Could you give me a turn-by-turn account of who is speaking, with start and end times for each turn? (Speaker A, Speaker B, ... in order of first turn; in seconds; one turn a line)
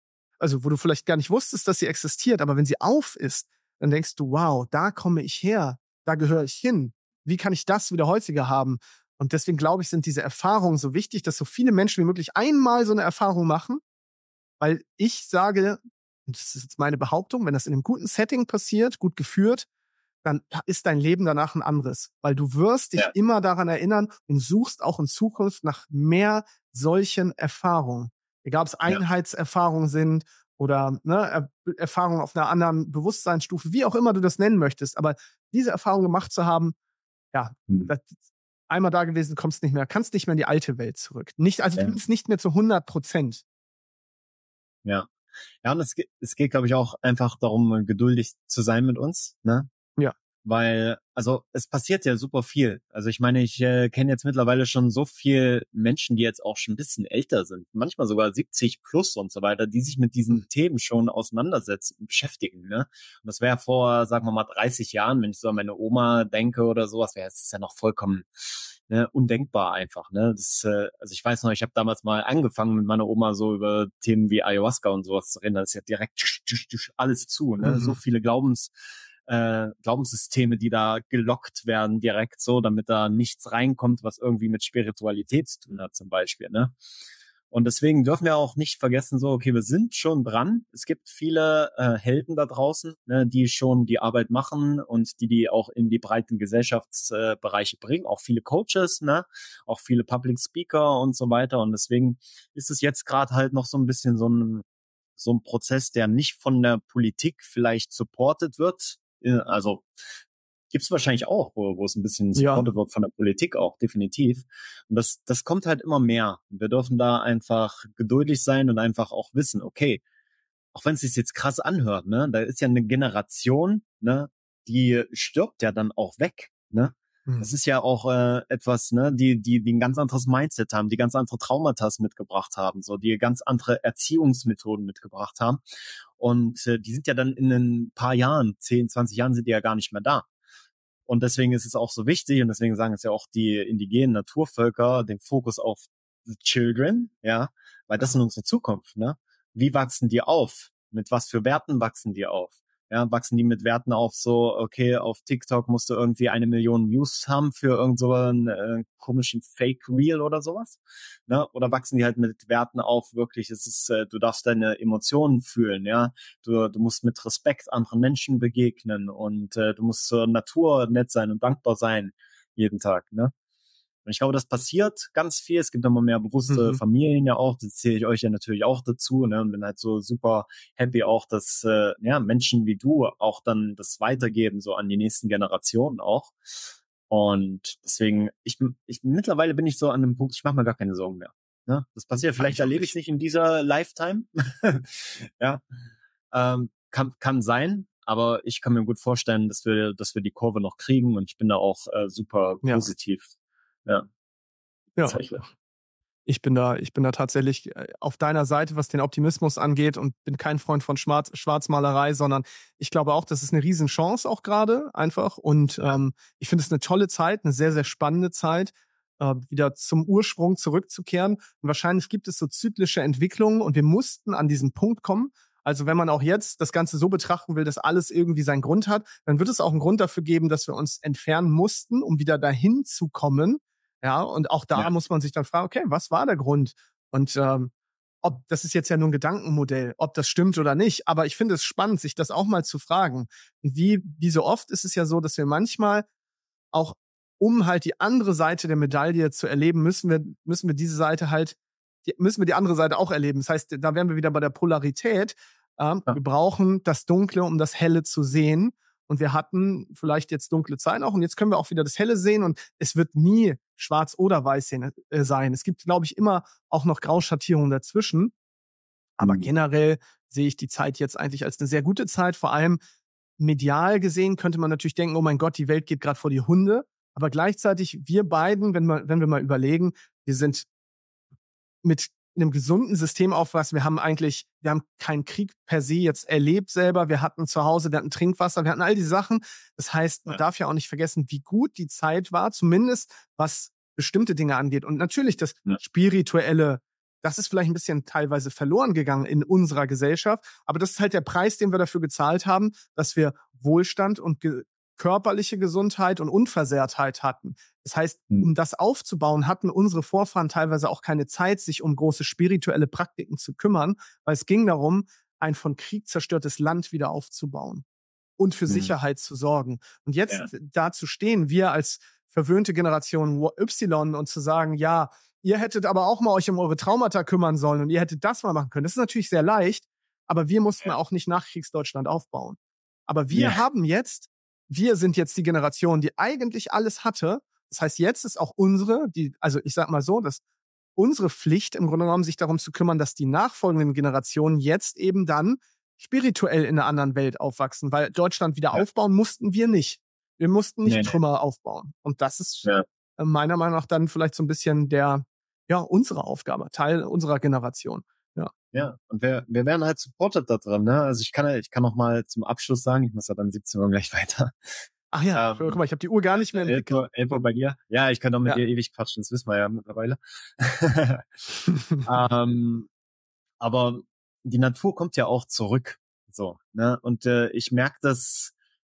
Speaker A: 0.4-13.8
Speaker A: 14.6-19.7
Speaker A: 20.2-36.8
Speaker A: 37.3-38.1
Speaker A: 38.7-43.4
Speaker B: 44.8-45.1
Speaker B: 45.6-49.7
Speaker B: 50.4-78.7
Speaker A: 77.6-78.0
Speaker B: 79.2-86.7
Speaker B: 87.5-104.6
Speaker B: 105.2-109.9
Speaker B: 110.7-120.0
Speaker A: 112.3-112.7
Speaker B: 120.7-135.6
Speaker A: 127.2-127.5
Speaker B: 136.2-140.3
Speaker B: 141.1-173.3
Speaker B: 174.1-186.4
Speaker A: 176.5-176.8
Speaker B: 187.1-195.6
Speaker A: 192.4-192.9
Speaker B: 196.3-203.3
Speaker A: 205.0-205.2
Speaker B: 205.0-205.4
Speaker A: 206.3-237.7
Speaker A: 238.2-246.0
Speaker A: 246.7-268.3
Speaker A: 269.2-272.8
Speaker B: 269.2-269.5
Speaker A: 273.4-280.7
Speaker A: 281.8-317.8
Speaker A: 318.4-340.4
Speaker B: 333.3-333.6
Speaker A: 340.9-358.5
Speaker B: 350.9-351.2
Speaker B: 358.7-364.6
Speaker A: 365.1-366.9
Speaker B: 365.3-365.8
Speaker B: 366.5-371.2
Speaker A: 371.7-372.0
Speaker B: 372.0-372.9
Speaker B: 373.6-378.5